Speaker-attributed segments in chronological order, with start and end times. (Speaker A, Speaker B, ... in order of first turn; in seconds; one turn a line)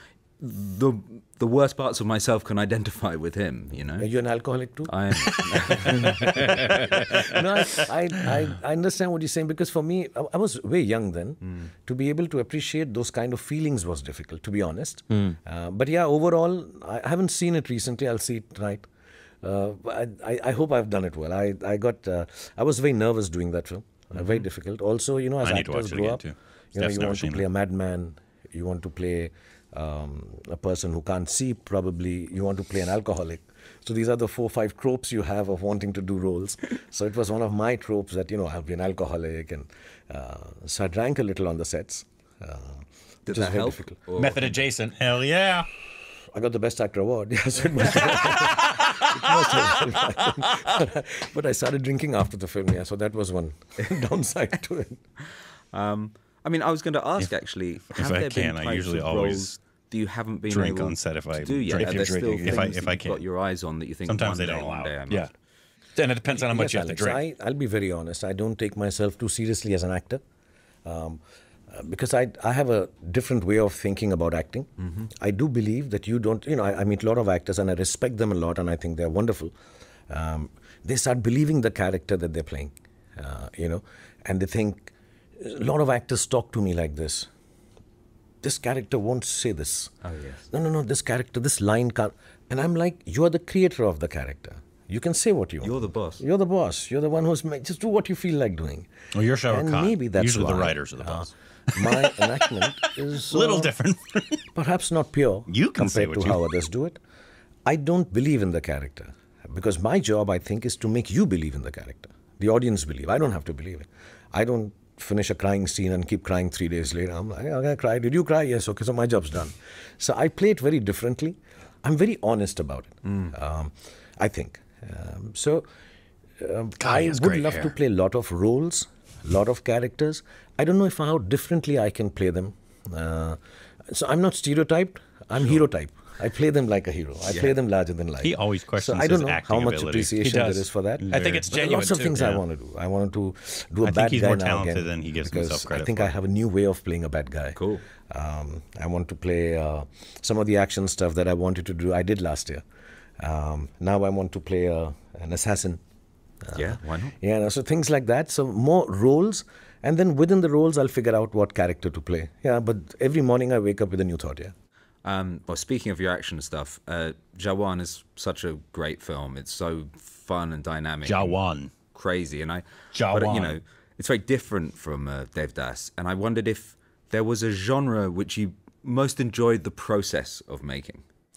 Speaker A: 0.4-4.1
Speaker B: 4.0-4.9
Speaker A: 4.8-7.3
Speaker B: 5.7-18.9
Speaker C: 15.1-15.3
Speaker B: 19.4-44.0
Speaker D: 25.4-27.4
Speaker A: 43.2-44.6
Speaker C: 44.1-45.0
Speaker D: 45.0-45.7
Speaker B: 46.3-55.0
Speaker A: 55.7-65.3
Speaker D: 57.9-59.6
Speaker C: 60.5-60.9
Speaker D: 60.5-63.2
Speaker C: 61.7-62.9
Speaker D: 64.0-65.0
Speaker C: 66.0-67.2
Speaker B: 66.3-70.2
Speaker B: 70.8-79.5
Speaker A: 74.8-75.1
Speaker B: 80.1-87.3
Speaker B: 88.4-89.9
Speaker A: 90.0-90.5
Speaker B: 90.5-98.9
Speaker A: 95.6-96.2
Speaker D: 99.1-102.2
Speaker B: 99.4-103.7
Speaker D: 102.9-104.4
Speaker B: 104.5-107.0
Speaker D: 105.5-106.4
Speaker B: 107.7-125.6
Speaker A: 123.0-123.3
Speaker B: 126.4-152.6
Speaker C: 126.8-127.7
Speaker D: 138.2-140.2
Speaker C: 140.2-142.4
Speaker D: 141.0-141.5
Speaker D: 143.8-146.1
Speaker A: 147.6-147.8
Speaker B: 153.2-155.8
Speaker B: 156.4-164.5
Speaker A: 156.5-157.1
Speaker A: 165.0-171.4
Speaker D: 171.0-171.7
Speaker A: 171.9-181.0
Speaker D: 172.9-173.6